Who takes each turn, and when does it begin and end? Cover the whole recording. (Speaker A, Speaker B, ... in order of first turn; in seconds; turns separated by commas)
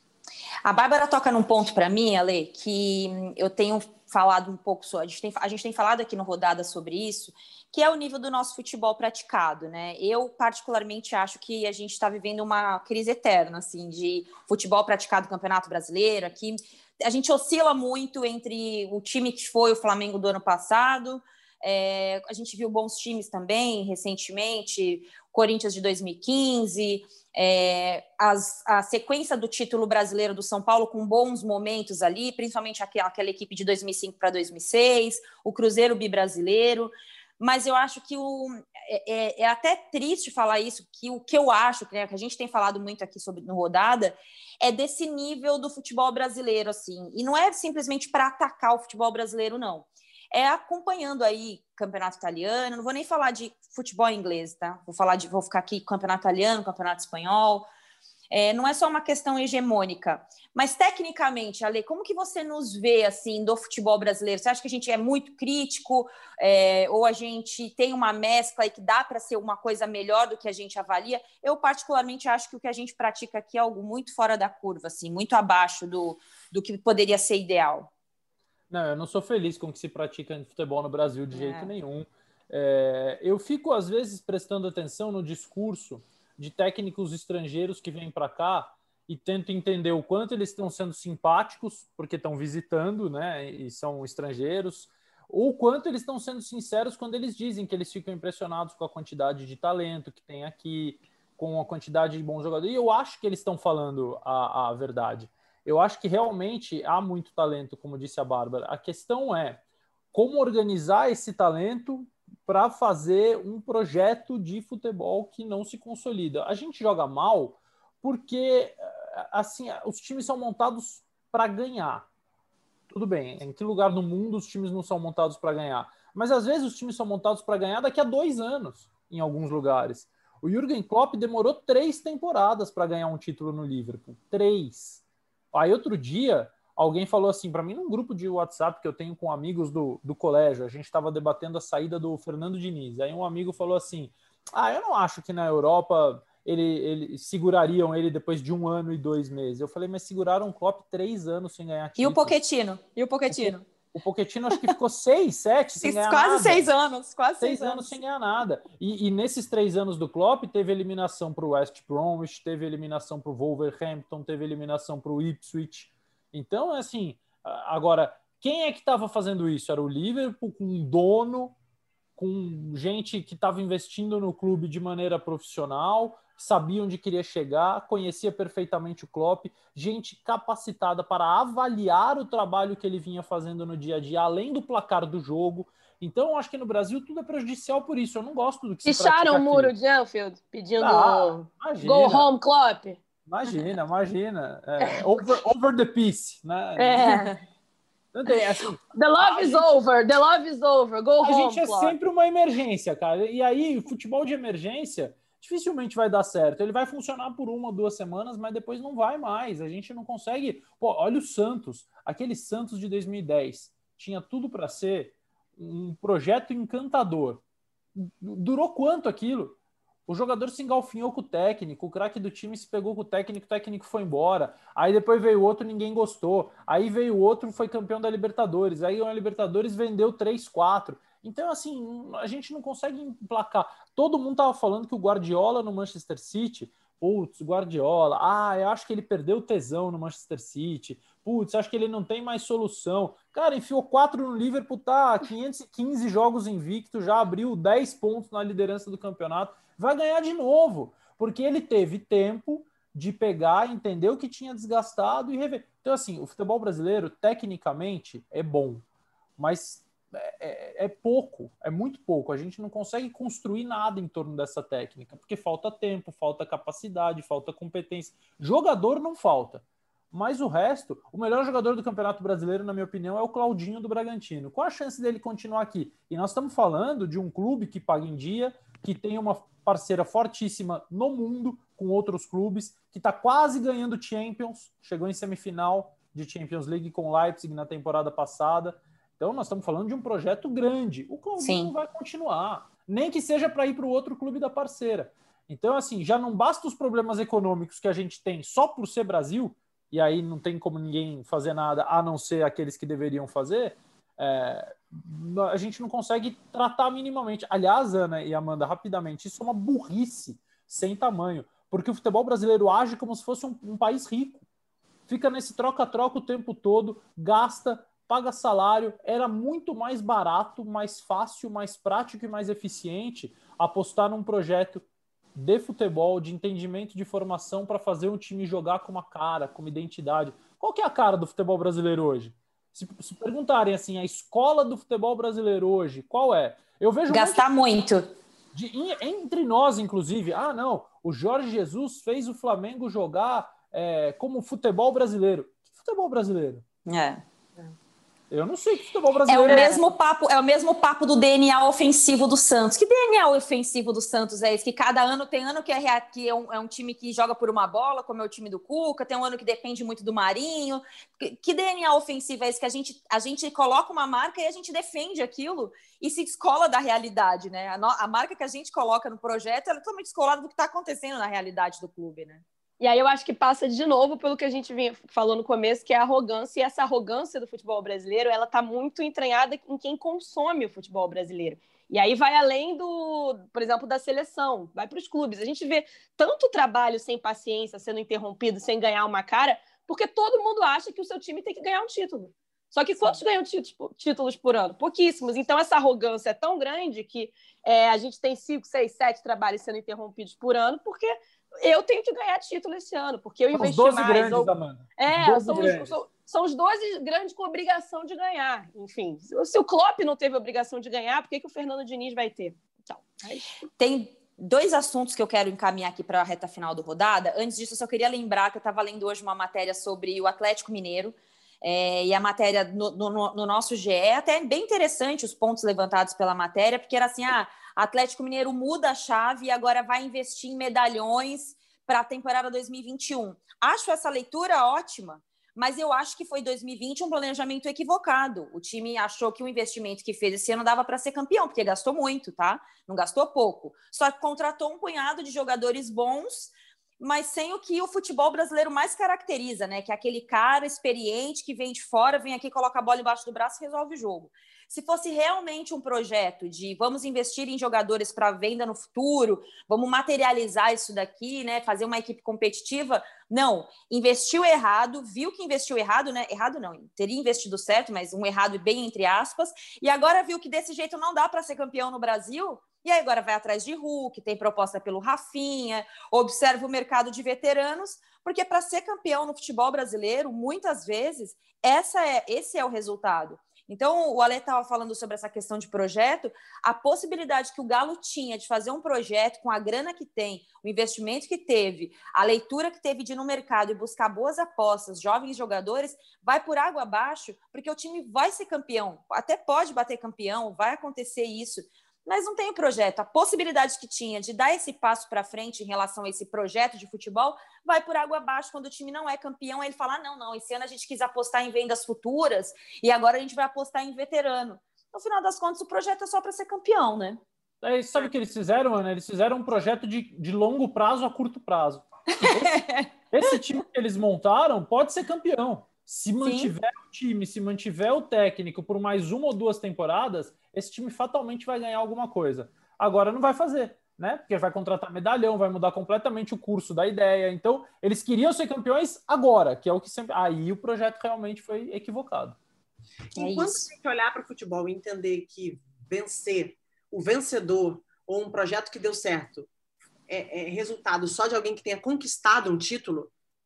Speaker A: 0.7-57.7, Speaker A: 58.3-77.9, Speaker B: 78.7-109.6, Speaker A: 81.3-81.7, Speaker B: 110.1-122.1, Speaker B: 122.9-135.0, Speaker B: 135.5-152.4, Speaker A: 152.0-153.6, Speaker B: 153.3-156.7, Speaker A: 155.8-158.0, Speaker B: 157.4-171.6, Speaker B: 172.2-189.7, Speaker C: 188.8-193.0, Speaker B: 190.8-192.3, Speaker B: 193.2-197.3, Speaker C: 194.8-195.1, Speaker C: 196.8-197.4, Speaker B: 198.1-199.7, Speaker C: 198.9-202.0, Speaker B: 201.2-217.4, Speaker B: 217.9-219.6, Speaker B: 220.1-258.8, Speaker B: 259.4-314.4, Speaker A: 291.4-291.7, Speaker B: 315.1-337.5, Speaker A: 337.1-338.1, Speaker B: 338.5-346.6, Speaker A: 346.9-347.2, Speaker B: 348.3-349.8, Speaker A: 349.3-372.4, Speaker C: 349.5-349.8, Speaker C: 372.8-413.5, Speaker B: 403.5-406.0, Speaker A: 413.8-517.2, Speaker B: 517.6-542.4, Speaker A: 522.2-522.9, Speaker A: 526.2-526.5, Speaker D: 543.1-549.5, Speaker A: 543.2-543.7, Speaker D: 550.1-553.1